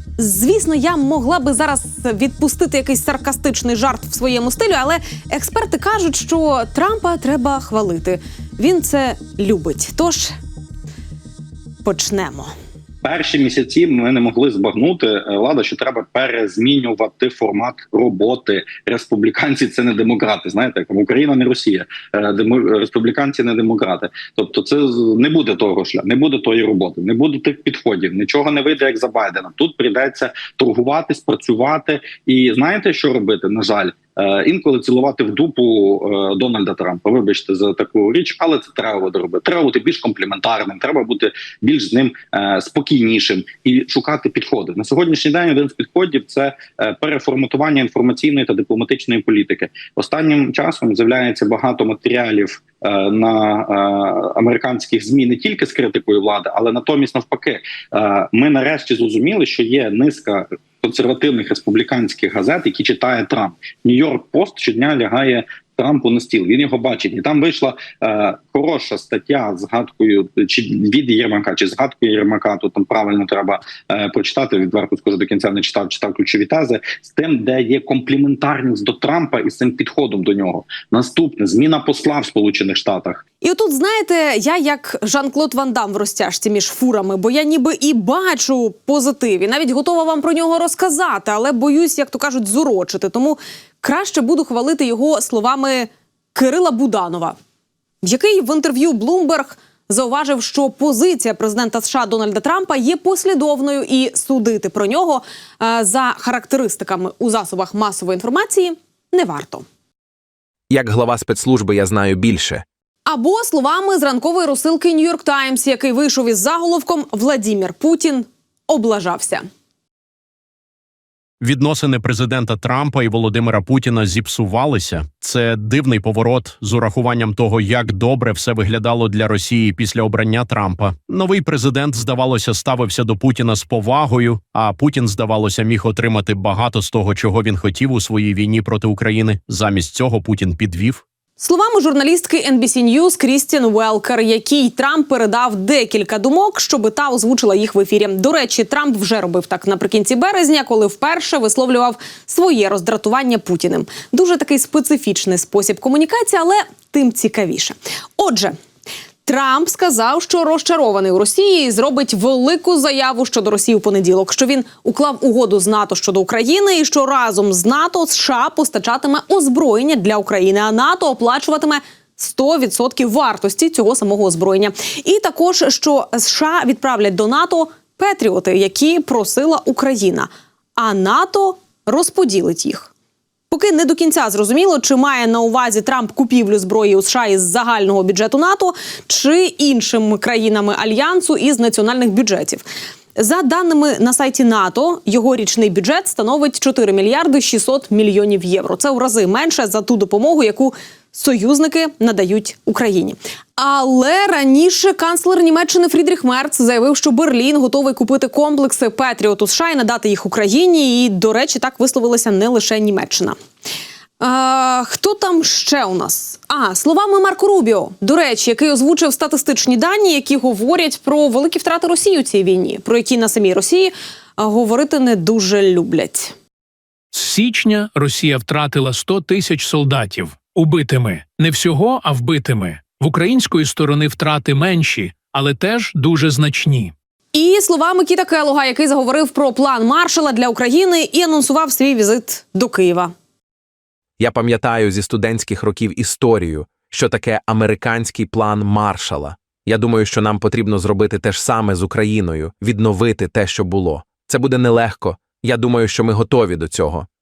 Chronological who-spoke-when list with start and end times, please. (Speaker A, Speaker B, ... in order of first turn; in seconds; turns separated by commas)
Speaker A: 0.2-10.3, Speaker A: 11.8-12.5, Speaker B: 13.0-83.2, Speaker A: 83.4-97.3, Speaker A: 98.0-109.6, Speaker C: 110.7-112.6, Speaker A: 113.0-119.4, Speaker D: 121.4-141.0, Speaker A: 141.4-158.5, Speaker A: 159.2-182.9, Speaker A: 183.5-192.6, Speaker A: 193.2-213.3, Speaker A: 214.2-226.3, Speaker E: 227.1-236.9, Speaker A: 237.3-243.1, Speaker C: 244.2-257.1